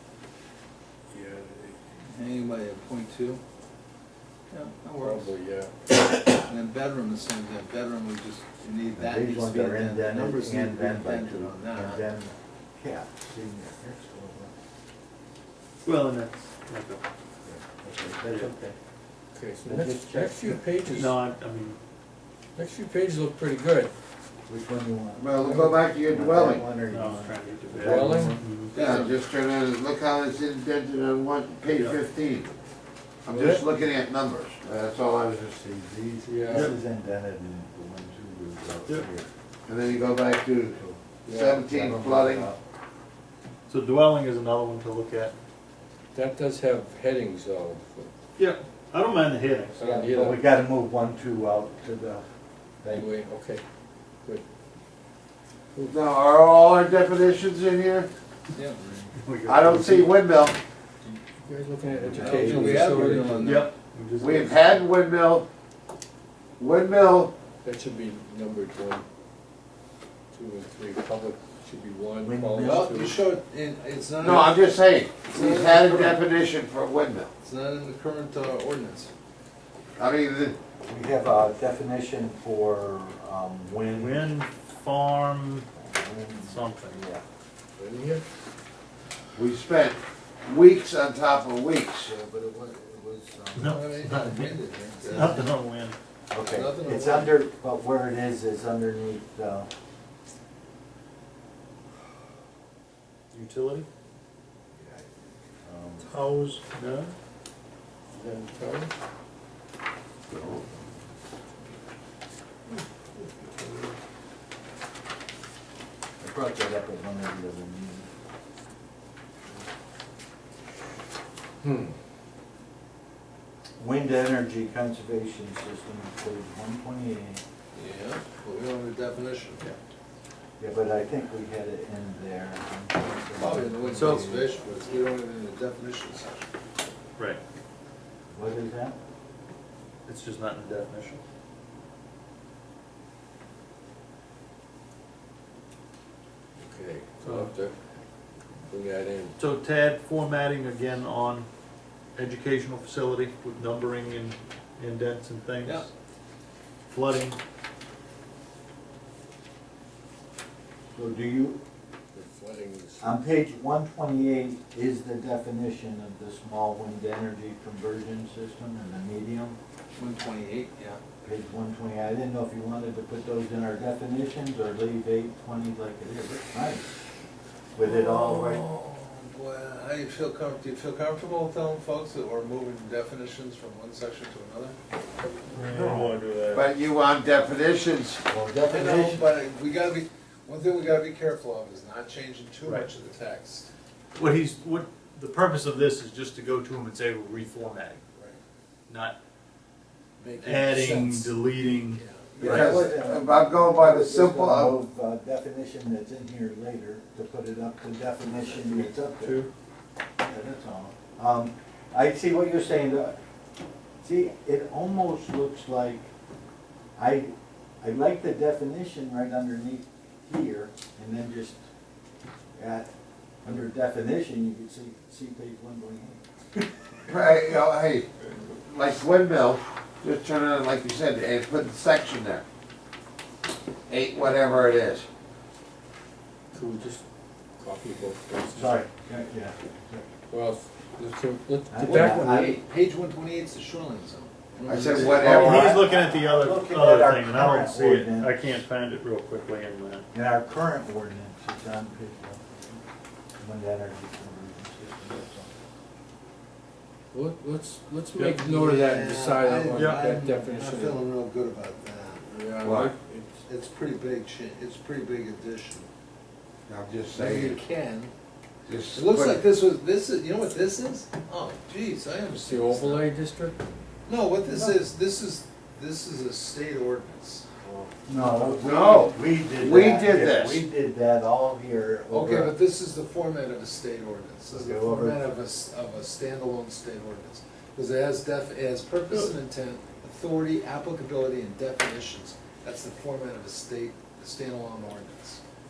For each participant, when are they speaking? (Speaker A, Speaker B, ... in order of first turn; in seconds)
Speaker A: 1.1-1.8, 5.0-5.7, 19.3-21.2, 22.6-23.9, 27.9-28.4, 33.3-33.7, 36.3-36.7, 41.2-41.8, 46.1-48.1, 49.7-50.4, 52.9-53.6, 61.0-63.6, 67.6-69.0, 70.3-73.2, 87.8-88.2, 108.1-108.9, 121.6-121.9, 146.6-147.8, 148.7-149.4, 162.1-163.2, 236.5-237.0, 237.6-238.8, 240.3-242.5, 244.7-245.0, 257.1-261.0, 262.3-263.4, 272.3-273.6
Speaker B: 2.0-3.4, 4.5-5.3, 6.3-12.1, 28.5-29.1, 58.5-58.8, 62.2-63.7, 72.6-74.7, 75.3-76.1, 77.4-79.1, 93.6-95.5, 96.4-97.4, 127.7-129.7, 133.3-136.5, 155.6-155.9, 169.9-171.0, 177.8-184.8, 188.7-193.7, 200.2-202.9, 241.8-245.5, 258.2-262.3, 263.4-265.9, 267.1-268.1, 268.9-273.1, 274.0-277.5, 278.6-279.1, 282.1-295.4
Speaker C: 8.9-14.5, 17.4-18.8, 19.6-20.6, 24.5-28.7, 36.5-39.3, 41.6-42.6, 49.8-52.2, 52.8-53.1, 58.8-59.1, 61.9-63.4, 72.2-73.0, 80.8-84.3, 85.8-87.2, 92.0-93.8, 95.0-95.4, 96.3-99.7, 105.6-106.1, 116.2-118.1, 123.8-127.4, 130.6-134.5, 138.3-139.0, 160.9-161.6, 163.0-169.6, 171.2-176.9, 177.7-178.6, 188.3-189.2, 202.4-209.4, 210.2-213.2, 214.0-216.1, 216.9-221.6, 222.6-222.9, 223.4-226.7, 238.5-240.1, 241.7-242.6, 245.1-248.3, 250.1-252.8, 253.4-255.5, 277.6-282.6, 284.5-285.3
Speaker D: 15.8-17.0, 20.9-21.8, 26.8-28.8, 43.7-45.4, 48.4-49.8, 59.2-60.1, 63.4-64.6, 83.9-85.7, 86.4-87.0, 93.5-94.6, 95.1-96.0, 103.3-103.9, 106.0-107.2, 112.7-114.0, 133.9-134.3, 140.1-141.2, 149.4-151.5, 152.2-155.9, 156.9-157.4, 185.5-186.7, 194.1-198.0, 198.9-199.2, 200.4-202.8, 208.6-209.5, 245.0-250.1
Speaker E: 25.2-26.7, 28.7-32.5, 33.2-36.5, 39.6-42.5, 55.9-58.1, 59.5-60.6, 64.2-65.5, 66.6-67.3, 74.2-77.3, 80.0-80.6, 89.3-92.1, 110.3-110.7, 186.5-188.2, 202.4-204.8, 227.1-232.4, 233.9-235.1, 244.7-245.8, 262.6-262.9, 266.7-267.6, 268.7-269.4, 278.6-280.7